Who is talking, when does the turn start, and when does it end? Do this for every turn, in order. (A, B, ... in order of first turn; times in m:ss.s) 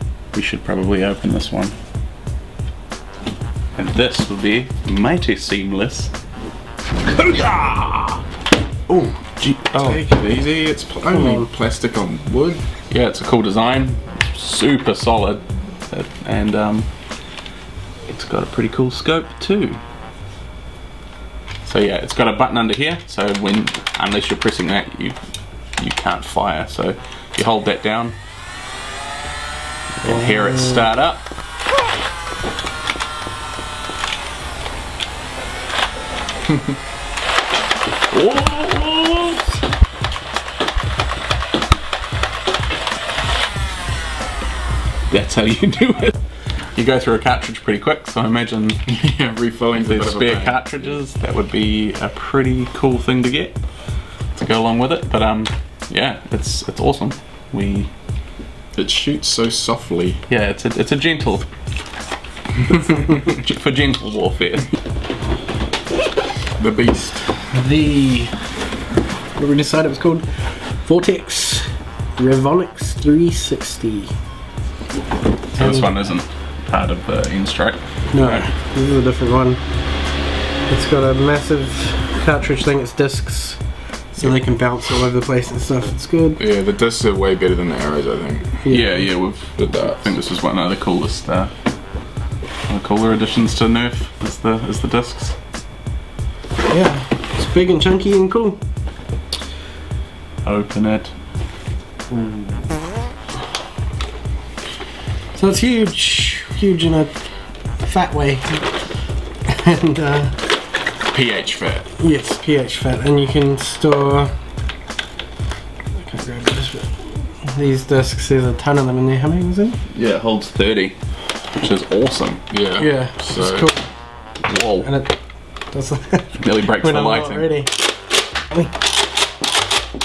0:00.3-0:01.7 A
0:03.8-0:06.1 A
0:07.1-0:08.2 A
0:08.9-0:10.0 A
0:09.7-0:12.7 B
0:11.1-0:11.5 C
0:12.9-0:16.9 A
0:18.1-0:19.8 A
0:21.6-0:25.2 A
0:25.8-0:28.2 A
0:30.0-0:31.3 A
0:38.1-0:39.4 A
0:45.1-0:46.2 A
0:46.8-0:48.8 A
0:48.9-0:51.0 B
0:49.7-0:53.6 A
0:54.3-0:57.9 A
0:58.7-1:00.2 B
1:00.3-1:01.5 A
1:02.7-1:04.7 A
1:06.6-1:07.3 B
1:07.5-1:08.4 C
1:09.4-1:14.1 C
1:15.5-1:18.4 A
1:15.6-1:15.9 C
1:18.1-1:20.2 C
1:20.7-1:26.4 C
1:26.4-1:28.9 B
1:28.6-1:29.0 C
1:28.7-1:31.5 A
1:29.6-1:30.2 B
1:32.7-1:35.4 A
1:36.7-1:38.6 C
1:40.4-1:41.1 A
1:42.1-1:42.6 C
1:45.3-1:48.8 C
1:49.5-1:50.4 C
1:51.1-1:51.9 B
1:52.0-1:54.3 C
1:56.0-1:59.8 C
1:59.9-2:02.5 A
2:02.5-2:03.7 B
2:02.8-2:03.9 C
2:04.4-2:04.9 A
2:04.8-2:07.8 C
2:06.4-2:07.6 A